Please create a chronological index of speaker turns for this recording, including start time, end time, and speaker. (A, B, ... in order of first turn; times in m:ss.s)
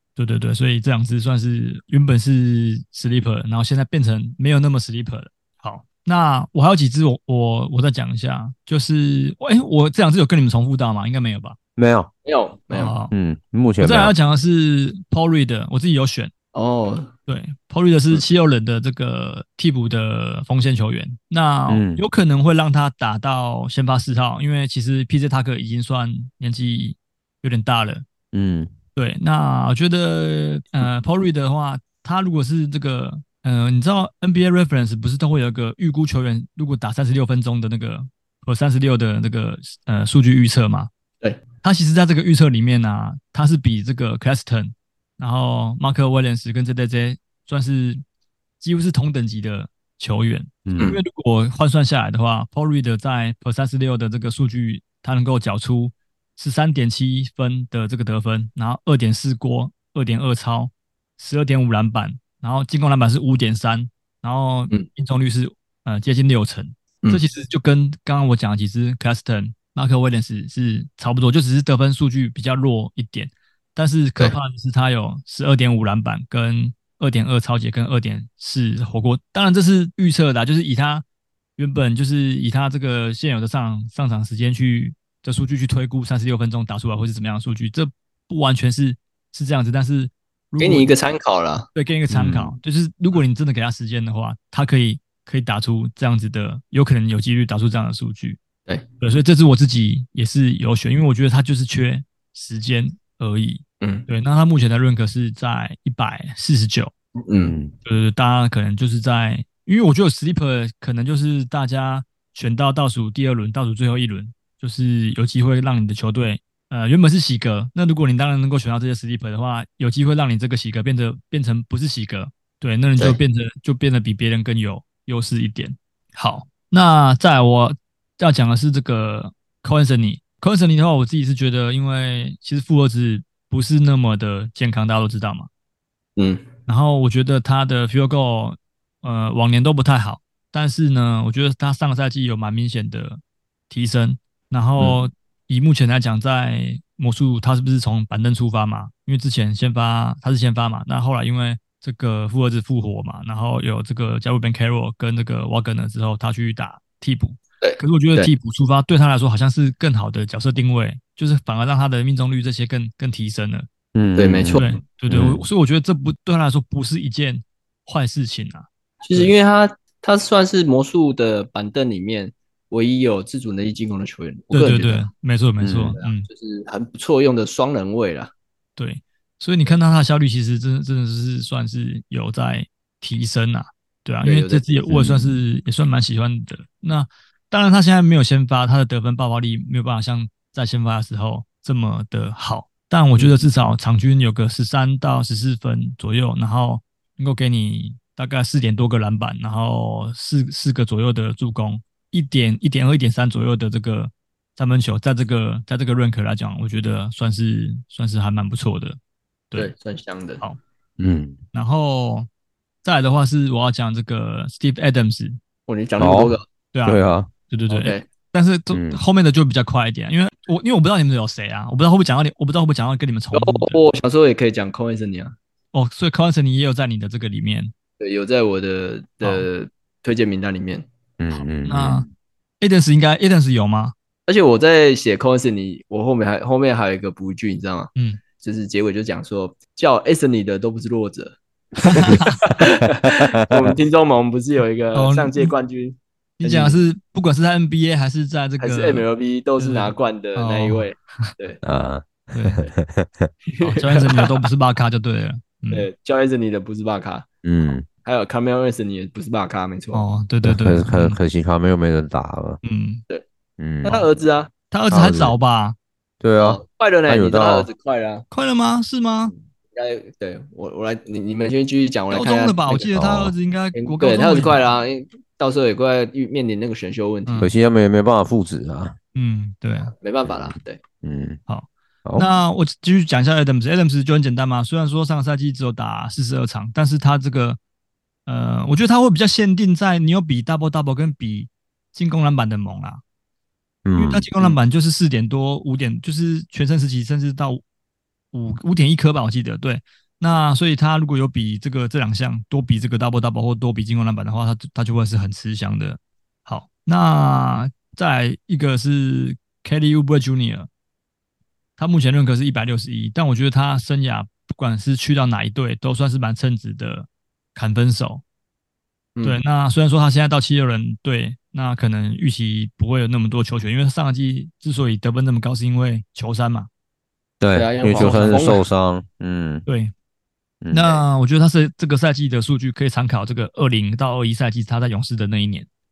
0:00.2-0:11.6 A
0:11.8-0:12.1 B
0:12.2-0:13.0 C
0:12.7-0:13.1 A
0:13.1-0:14.1 B
0:13.8-0:16.3 A
0:16.5-0:17.1 C
0:17.3-0:28.0 A
0:21.7-0:22.0 B
0:28.3-0:28.7 B
0:29.0-0:40.9 A
0:41.6-0:48.0 A
0:48.6-1:21.0 A
0:50.6-0:50.9 B
1:21.6-1:30.9 A
1:30.6-1:31.7 C
1:31.8-1:38.4 A
1:32.1-1:32.6 B
1:39.0-1:46.9 A
1:43.8-1:44.1 C
1:47.2-1:47.6 C
1:47.4-1:47.7 B
1:47.8-2:15.5 A
2:16.2-2:16.4 C
2:16.7-2:43.7 A
2:37.6-2:38.3 C
2:44.0-2:45.4 B
2:44.2-2:44.7 C
2:44.6-2:49.3 A
2:49.0-2:55.1 C
2:54.5-2:56.3 A
2:55.6-2:56.0 B
2:56.0-2:58.3 C
2:58.8-3:29.0 A
3:04.2-3:05.0 C
3:13.2-3:13.5 C
3:29.6-3:30.4 C
3:31.0-3:31.4 B
3:31.5-3:32.3 A
3:32.8-3:35.4 A
3:35.7-3:36.4 C
3:36.0-3:37.3 B
3:36.7-3:43.8 A
3:37.7-3:38.0 C
3:38.7-3:39.0 B
3:43.3-3:45.4 C
3:45.7-3:47.7 A
3:48.0-3:50.9 C
3:49.2-3:49.5 A
3:51.2-3:52.1 B
3:51.7-3:52.1 A
3:52.6-3:53.9 A
3:54.3-4:06.8 C
4:01.8-4:02.6 A
4:03.4-4:03.8 B
4:04.9-4:05.5 A
4:06.4-4:09.1 A
4:08.6-4:11.6 C
4:09.6-4:11.3 A
4:11.6-4:13.3 B
4:12.3-4:12.6 A
4:13.5-4:14.3 C
4:13.6-4:15.9 A
4:15.7-4:17.3 C
4:17.4-4:17.9 B
4:17.9-4:20.0 C
4:19.9-4:21.2 A
4:20.4-4:22.6 B
4:22.6-4:23.0 A
4:23.6-4:24.0 B
4:23.8-4:24.5 C
4:24.7-4:25.8 A
4:24.9-4:25.4 B
4:26.2-4:27.7 B
4:26.4-4:28.2 C
4:28.3-4:29.3 A
4:29.3-4:33.1 C
4:32.1-4:34.6 A
4:33.0-4:33.3 B
4:33.8-4:37.5 C
4:37.2-4:37.5 A
4:37.4-4:39.0 B
4:39.2-4:39.9 A
4:39.9-4:40.8 C
4:40.2-4:41.4 B
4:41.5-4:47.6 A
4:42.0-4:42.3 B
4:48.2-4:53.0 A
4:53.8-4:54.6 B
4:54.0-4:57.6 A
4:58.3-5:10.7 A
5:11.8-5:18.2 A
5:19.2-5:19.4 C
5:19.2-5:26.7 A
5:27.4-5:29.7 B
5:27.5-5:28.6 C
5:27.9-5:28.6 A
5:29.7-5:29.9 A
5:30.6-5:31.0 B
5:30.7-5:35.7 A